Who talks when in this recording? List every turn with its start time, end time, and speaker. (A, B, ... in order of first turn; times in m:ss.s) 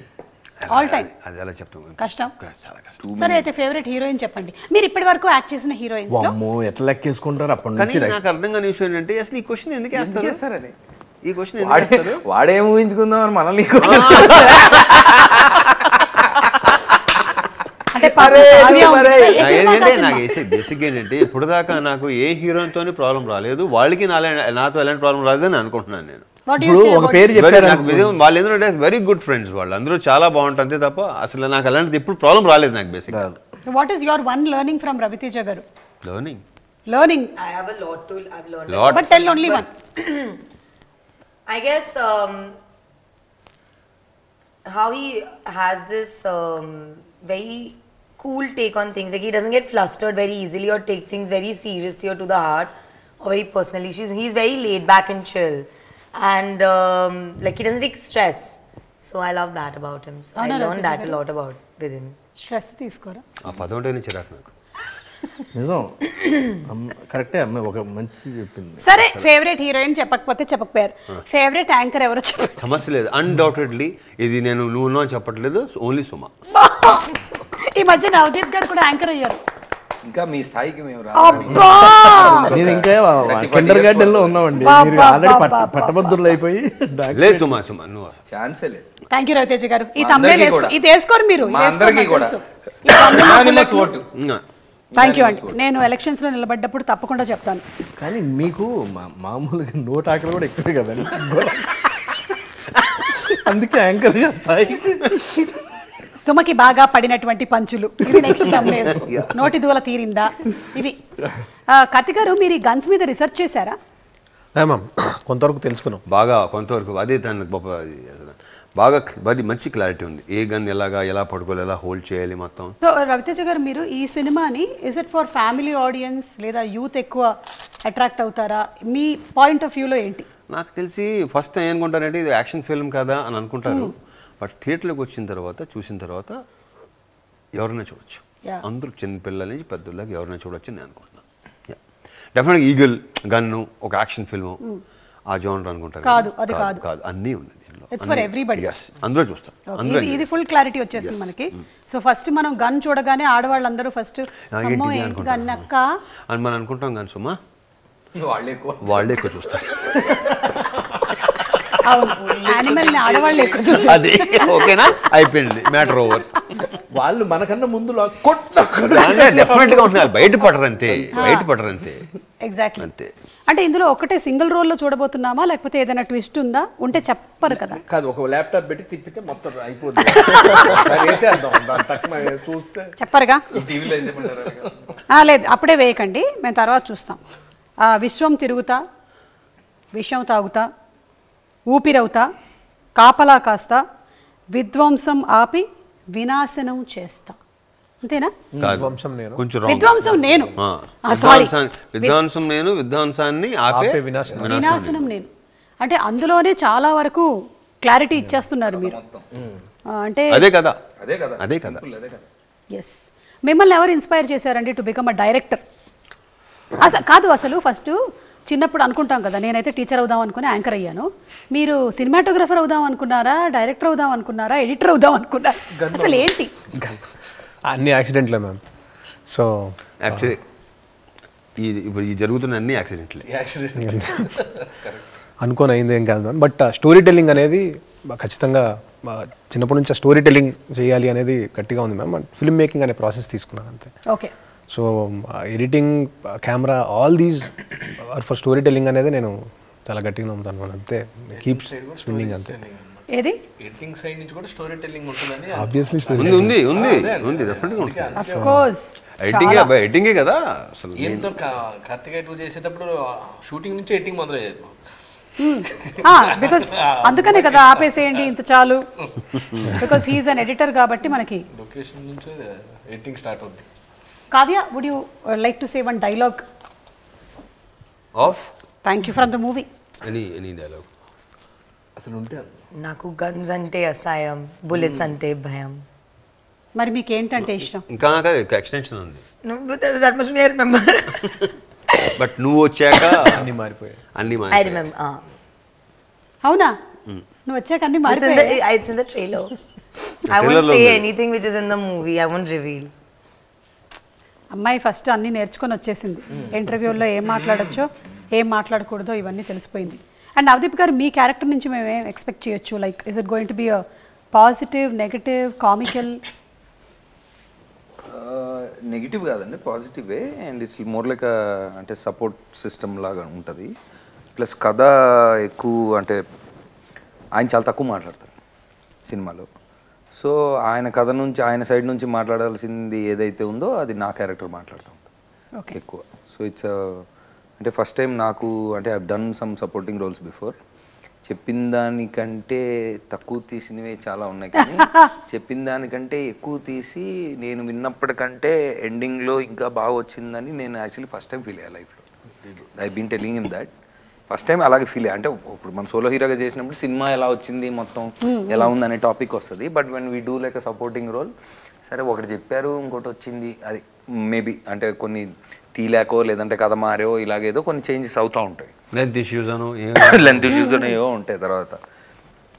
0:00.6-0:03.0 A
0:00.7-0:01.1 B
0:02.0-0:02.3 B
0:03.0-0:03.5 C
0:03.2-0:06.3 B
0:06.1-0:08.2 D
0:07.8-0:10.4 A
0:09.9-0:10.7 C
0:11.2-0:12.2 A
0:11.6-0:17.4 C
0:13.8-0:15.0 A
0:17.9-0:20.4 B
0:18.0-0:19.7 C
0:18.6-0:19.4 D
0:19.4-0:26.3 A
0:26.5-0:27.3 B
0:26.6-0:28.2 D
0:27.3-0:33.3 A
0:33.1-0:33.4 D
0:33.7-0:35.6 B
0:36.0-0:36.4 A
0:36.9-0:37.3 B
0:37.4-0:40.4 E
0:38.7-0:39.0 A
0:38.9-0:39.7 B
0:41.5-0:42.6 E
0:44.7-1:02.2 E
1:00.4-1:01.2 B
1:02.4-1:03.2 B
1:03.4-1:04.5 A
1:05.5-1:06.0 D
1:06.6-1:08.8 D
1:08.8-1:12.6 B
1:08.9-1:09.2 A
1:12.6-1:16.3 A
1:16.5-1:19.4 B
1:20.0-1:24.4 C
1:21.2-1:22.5 B
1:21.5-1:27.6 D
1:24.6-1:26.2 B
1:27.1-1:28.2 A
1:28.3-1:28.9 C
1:29.1-1:33.9 B
1:30.0-1:30.8 C
1:31.4-1:34.1 C
1:34.1-1:34.4 A
1:34.9-1:35.6 C
1:35.0-1:37.6 B
1:38.0-1:42.2 D
1:43.0-1:45.5 D
1:46.2-1:51.0 B
1:48.2-1:48.7 D
1:51.7-1:53.8 B
1:54.6-1:56.0 F
1:56.1-2:02.8 A
2:02.8-2:10.3 B
2:10.5-2:16.4 A
2:13.7-2:13.9 B
2:17.5-2:21.8 A
2:22.3-2:24.6 A
2:25.3-2:30.3 A
2:26.0-2:26.8 B
2:27.9-2:28.7 B
2:29.7-2:35.9 B
2:31.0-2:31.6 A
2:34.5-2:35.7 A
2:36.3-2:37.4 A
2:38.2-2:39.3 C
2:38.8-2:40.1 A
2:40.1-2:40.9 D
2:41.8-2:44.5 B
2:42.0-2:44.0 C
2:43.9-2:46.3 A
2:46.9-2:50.3 D
2:48.8-2:52.0 A
2:51.1-2:51.5 B
2:52.4-2:52.9 B
2:52.8-2:53.1 A
2:53.5-2:57.8 B
2:57.5-3:02.9 D
3:03.0-3:03.4 B
3:03.5-3:04.8 C
3:05.1-3:07.2 B
3:07.8-3:08.8 B
3:10.0-3:10.7 B
3:11.7-3:12.3 B
3:13.0-3:13.8 B
3:14.5-3:17.4 B
3:18.0-3:18.3 B
3:18.6-3:19.4 F
3:18.6-3:25.0 A
3:19.7-3:20.5 B
3:20.0-3:20.4 D
3:21.1-3:22.2 B
3:23.7-3:24.9 F
3:24.5-3:25.3 B
3:25.8-3:27.3 B
3:27.8-3:29.0 B
3:28.7-3:29.3 C
3:29.9-3:30.5 B
3:30.3-3:30.8 A
3:31.0-3:32.3 C
3:31.4-3:31.8 A
3:32.7-3:35.6 B
3:36.8-3:38.0 B
3:38.5-3:46.5 B
3:45.7-3:46.3 D
3:47.7-3:48.6 F
3:49.3-3:50.4 F
3:50.0-3:50.4 A
3:51.6-3:53.3 A
3:53.3-3:55.1 D
3:53.8-3:54.2 F
3:55.4-4:03.9 F
4:04.7-4:12.6 F
4:11.4-4:13.1 D
4:13.1-4:13.4 B
4:13.6-4:18.6 D
4:15.5-4:16.8 F
4:16.2-4:18.2 A
4:18.2-4:19.7 B
4:19.2-4:21.3 A
4:21.0-4:24.8 D
4:25.4-4:28.8 B
4:25.8-4:28.3 D
4:29.6-4:31.4 B
4:31.5-4:33.7 D
4:34.3-4:36.4 B
4:38.2-4:38.5 A
4:38.8-4:39.7 B
4:40.0-4:40.9 A
4:42.0-4:42.5 D
4:42.8-4:45.8 E
4:44.7-4:45.0 D
4:46.8-4:47.8 B
4:47.9-4:49.2 A
4:49.4-4:51.5 E
4:52.2-4:53.5 A
4:53.2-4:54.0 F
4:54.2-4:54.9 A
4:54.5-4:55.2 E
4:56.4-4:56.7 B
4:57.5-4:58.6 B
4:58.1-4:59.6 E
5:00.3-5:02.9 E
5:00.3-5:01.1 A
5:04.6-5:13.8 B
5:14.3-5:16.2 B
5:18.1-5:23.7 C
5:24.4-5:26.2 C
5:27.4-5:28.3 C
5:29.1-5:29.5 C
5:30.2-5:35.0 C
5:35.8-5:37.0 C
5:37.6-5:40.6 C
5:41.3-5:52.0 C
5:44.6-5:45.1 B
5:52.8-5:53.7 C
5:54.3-6:01.3 C
5:58.2-5:58.7 B
6:01.9-6:08.7 C
6:08.9-6:10.8 A
6:10.0-6:11.8 C
6:10.5-6:10.9 B